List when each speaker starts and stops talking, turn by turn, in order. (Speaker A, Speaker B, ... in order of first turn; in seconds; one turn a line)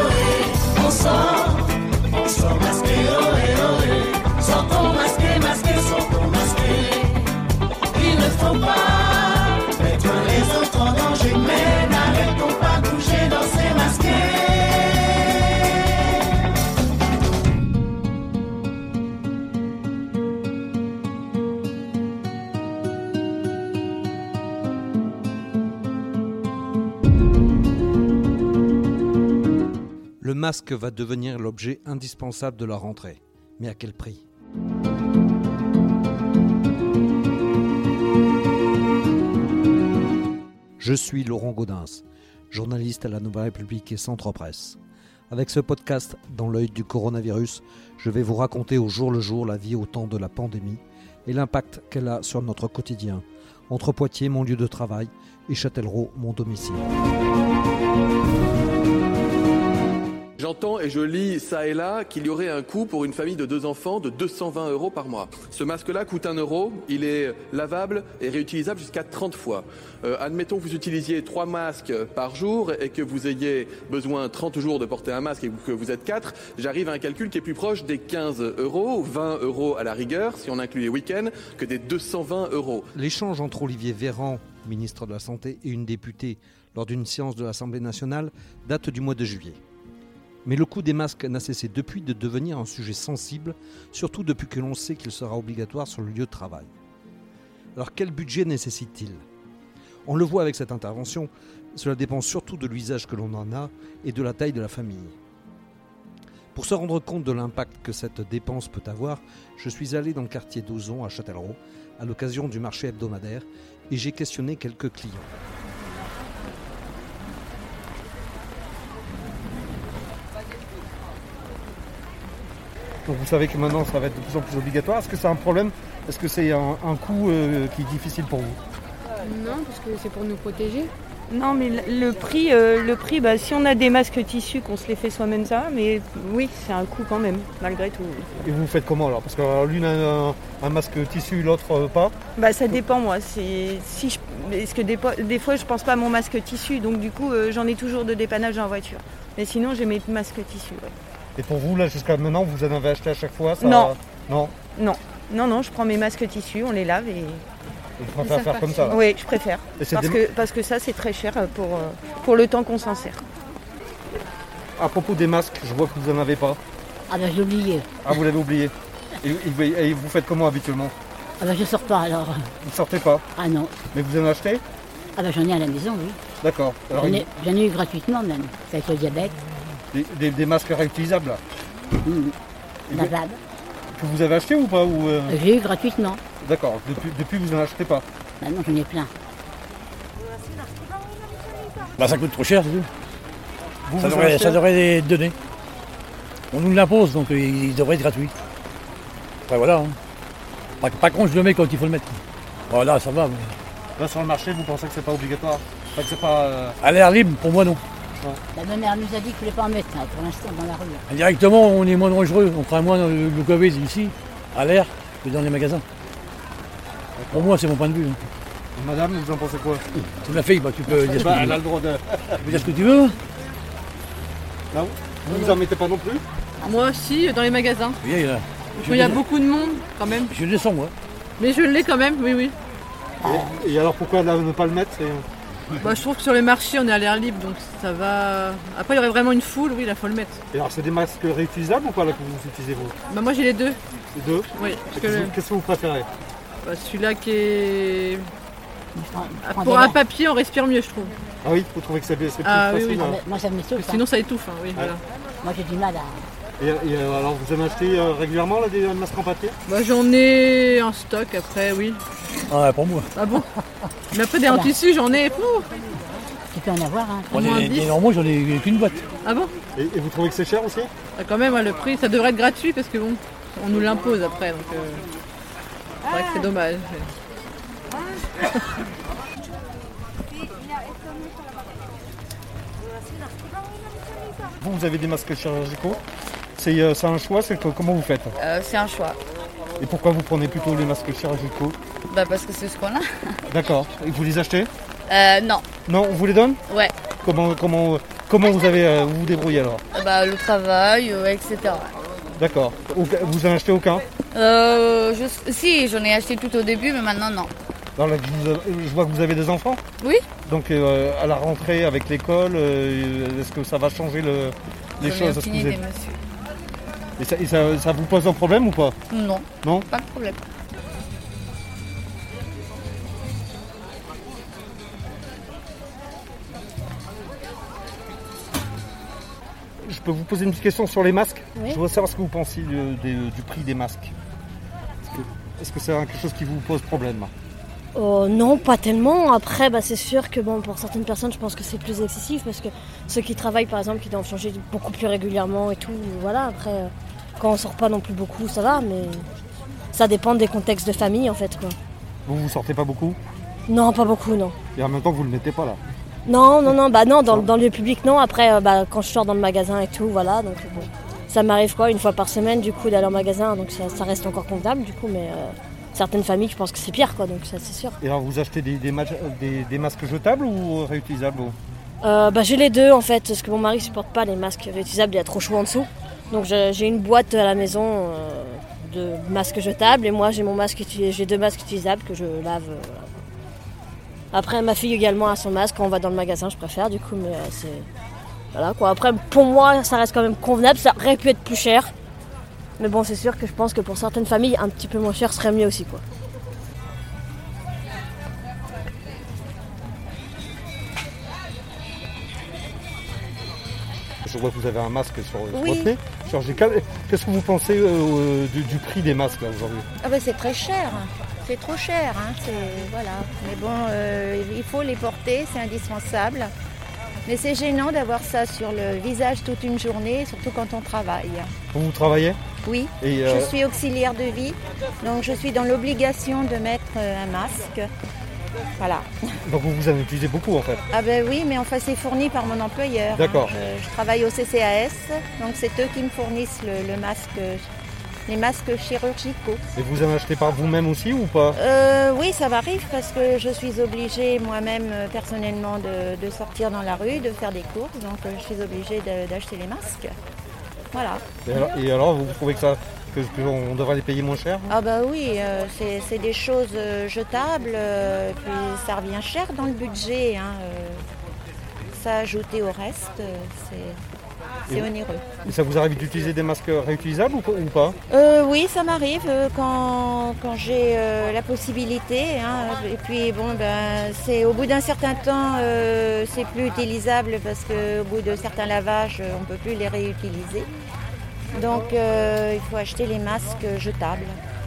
Speaker A: 0.8-1.2
Speaker A: 2.6-3.7
Speaker A: 4.3-6.9
Speaker A: 10.2-14.1
Speaker B: 30.2-34.2
Speaker B: 40.8-44.8
Speaker B: 45.3-56.9
Speaker C: 60.4-82.8
Speaker B: 82.9-89.6
Speaker B: 90.4-96.7
Speaker B: 97.7-99.2
Speaker B: 100.0-105.2
Speaker B: 106.5-115.3
Speaker D: 123.0-128.6
Speaker A: 129.2-130.9
Speaker E: 131.3-138.3
Speaker D: 138.4-142.1
Speaker E: 142.3-150.9
Speaker D: 151.4-154.5
Speaker E: 153.6-153.9
Speaker E: 154.7-157.4
Speaker D: 158.0-158.9
Speaker E: 158.3-163.2
Speaker D: 159.8-160.2
Speaker D: 164.8-166.6
Speaker F: 167.1-168.2
Speaker D: 168.1-170.9
Speaker F: 171.4-172.5
Speaker D: 172.6-173.2
Speaker F: 173.3-173.7
Speaker D: 173.9-174.6
Speaker F: 175.2-176.2
Speaker D: 176.4-177.2
Speaker F: 176.9-179.4
Speaker D: 179.9-181.4
Speaker F: 182.0-182.3
Speaker D: 182.9-183.1
Speaker F: 182.9-183.4
Speaker D: 183.9-185.3
Speaker F: 185.3-186.2
Speaker D: 186.4-188.1
Speaker F: 188.4-189.1
Speaker G: 192.0-192.9
Speaker D: 193.8-194.6
Speaker G: 194.0-195.3
Speaker G: 196.5-198.3
Speaker G: 199.5-200.0
Speaker G: 200.8-203.5
Speaker D: 204.0-206.8
Speaker G: 206.8-207.8
Speaker F: 208.5-211.0
Speaker G: 211.0-215.8
Speaker D: 217.2-217.5
Speaker G: 217.3-218.2
Speaker D: 218.8-219.8
Speaker G: 219.9-221.8
Speaker D: 221.0-222.8
Speaker G: 222.3-223.2
Speaker D: 224.7-226.2
Speaker H: 225.3-225.6
Speaker H: 226.6-228.0
Speaker G: 228.0-229.3
Speaker H: 228.9-230.3
Speaker G: 230.1-230.9
Speaker H: 231.4-232.5
Speaker F: 233.2-233.6
Speaker D: 233.3-235.2
Speaker H: 235.8-240.4
Speaker D: 240.5-242.9
Speaker H: 243.1-243.8
Speaker D: 244.1-246.1
Speaker H: 244.6-245.4
Speaker H: 246.6-248.3
Speaker F: 248.9-250.0
Speaker H: 249.4-251.2
Speaker D: 251.4-253.2
Speaker H: 252.4-255.0
Speaker F: 253.0-254.1
Speaker F: 255.4-256.2
Speaker D: 256.6-259.6
Speaker H: 259.7-262.0
Speaker G: 262.5-263.1
Speaker H: 263.1-263.5
Speaker H: 264.1-265.7
Speaker F: 264.5-264.7
Speaker F: 266.5-267.3
Speaker G: 267.3-269.1
Speaker H: 267.3-268.0
Speaker H: 269.2-269.5
Speaker D: 269.7-270.9
Speaker H: 271.2-275.0
Speaker H: 276.0-277.1
Speaker D: 284.6-286.0
Speaker D: 286.6-288.4
Speaker A: 288.4-289.1
Speaker D: 289.8-291.8
Speaker A: 292.1-293.1
Speaker D: 293.5-294.7
Speaker A: 295.1-295.6
Speaker D: 295.9-296.6
Speaker D: 297.2-299.8
Speaker A: 299.9-301.9
Speaker D: 302.4-304.0
Speaker A: 304.3-307.5
Speaker D: 307.9-309.8
Speaker D: 310.4-315.8
Speaker A: 315.0-316.2
Speaker D: 317.2-318.9
Speaker A: 319.1-320.4
Speaker D: 319.6-319.9
Speaker D: 329.8-334.1
Speaker I: 331.5-331.8
Speaker D: 335.1-337.3
Speaker I: 337.9-349.3
Speaker I: 349.9-351.8
Speaker D: 352.2-353.2
Speaker I: 353.7-354.5
Speaker D: 354.8-355.8
Speaker I: 356.2-368.0
Speaker D: 368.0-371.6
Speaker I: 372.0-383.1
Speaker I: 384.3-387.9
Speaker I: 388.5-391.9
Speaker I: 392.8-396.0
Speaker D: 404.2-409.9
Speaker J: 405.5-405.9
Speaker J: 410.0-416.5
Speaker J: 417.2-421.5
Speaker D: 421.7-422.4
Speaker J: 422.6-427.9
Speaker D: 423.0-423.5
Speaker J: 428.8-429.1
Speaker D: 429.4-430.8
Speaker J: 430.9-437.7
Speaker D: 433.1-433.5
Speaker J: 438.2-439.6
Speaker D: 439.8-441.6
Speaker J: 441.5-450.1
Speaker J: 450.9-451.2
Speaker D: 451.4-454.7
Speaker J: 454.7-461.0
Speaker J: 461.9-464.0
Speaker J: 464.7-465.3
Speaker D: 465.4-467.9
Speaker J: 468.1-480.7
Speaker J: 481.5-484.4